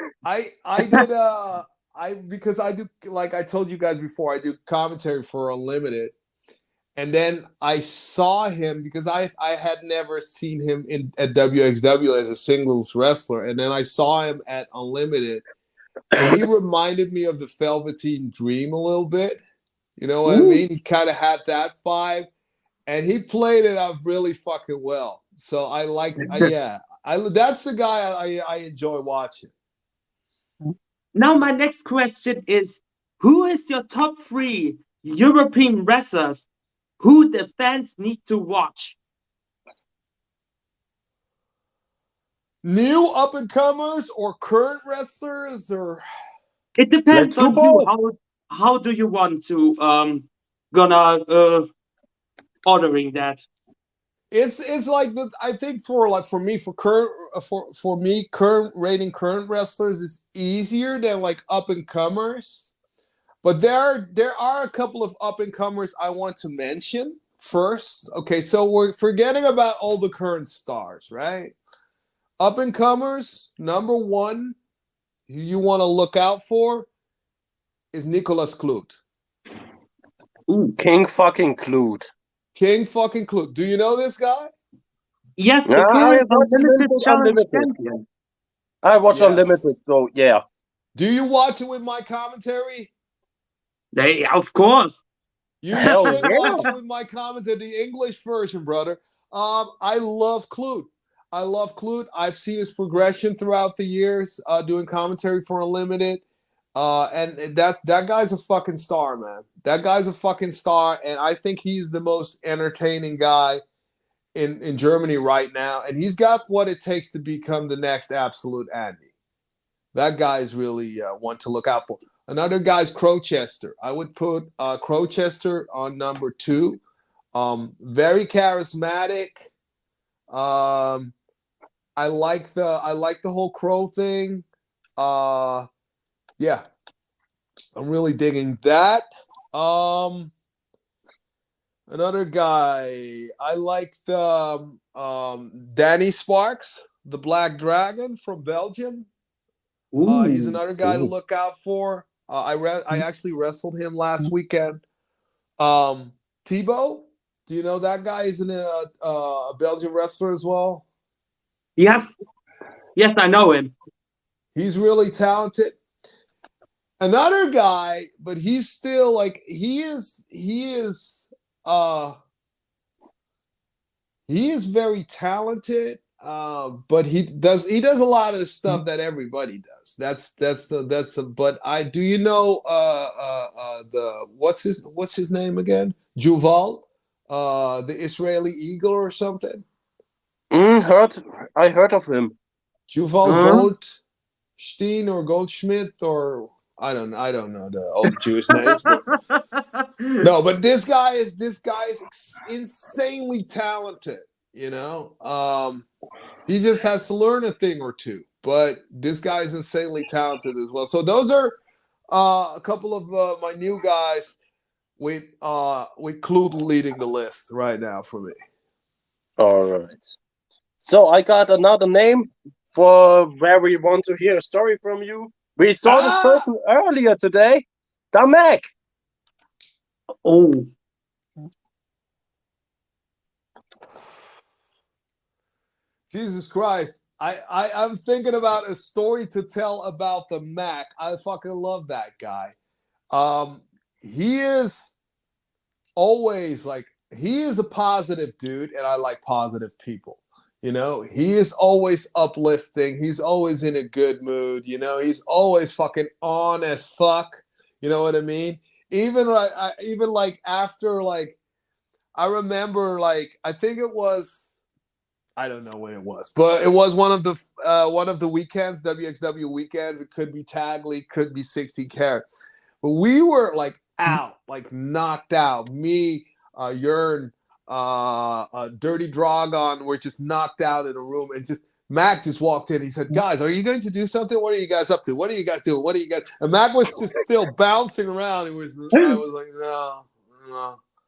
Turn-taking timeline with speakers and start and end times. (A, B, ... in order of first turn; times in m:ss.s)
0:00.2-0:06.1 A
0:07.0-0:15.4 A
0:16.1-0:19.4 A
0:20.0-0:22.3 A
0:20.2-0:20.6 B
0:22.9-0:29.5 A
0:26.2-0:26.5 B
0:31.1-0:36.4 B
0:37.0-0:39.0 B
0:42.6-0:46.0 A
0:46.8-0:51.7 B
0:47.1-0:47.9 C
0:52.6-0:53.4 B
0:54.3-1:02.7 A
1:03.4-1:11.6 A
1:12.4-1:14.6 A
1:15.3-1:16.9 A
1:17.9-1:19.0 A
1:20.5-1:20.7 B
1:20.8-1:22.1 C
1:22.5-1:24.5 A
1:25.4-1:28.0 B
1:25.7-1:27.7 C
1:28.8-1:30.4 C
1:29.1-1:29.7 A
1:31.0-1:32.9 A
1:33.9-1:35.0 B
1:35.6-1:46.2 A
1:35.8-1:36.6 B
1:35.8-1:36.6 C
1:46.7-1:53.6 A
1:54.3-1:59.0 A
1:59.9-2:06.8 A
2:07.3-2:09.5 A
2:10.3-2:11.1 A
2:12.0-2:14.4 A
2:15.0-2:15.7 A
2:16.4-2:16.6 A
2:17.8-2:20.3 A
2:21.9-2:29.1 A
2:29.9-2:30.6 B
2:30.1-2:34.8 A
2:35.6-2:40.8 A
2:41.8-2:42.2 B
2:43.0-2:43.7 B
2:44.5-2:45.8 A
2:47.0-2:52.2 A
2:54.3-3:09.6 A
3:10.5-3:12.3 C
3:12.9-3:14.0 A
3:13.2-3:13.6 C
3:13.2-3:13.6 B
3:14.6-3:19.0 A
3:20.2-3:25.9 A
3:26.5-3:31.6 A
3:32.1-3:34.4 A
3:35.0-3:38.4 A
3:39.4-3:40.2 C
3:40.8-3:48.7 C
3:45.8-3:46.5 A
3:50.2-3:50.7 B
3:56.1-4:02.6 A
4:03.1-4:04.9 A
4:06.0-4:21.4 A
4:22.2-4:24.6 A
4:25.4-4:32.2 A
4:32.8-4:50.8 A
4:48.9-4:49.2 B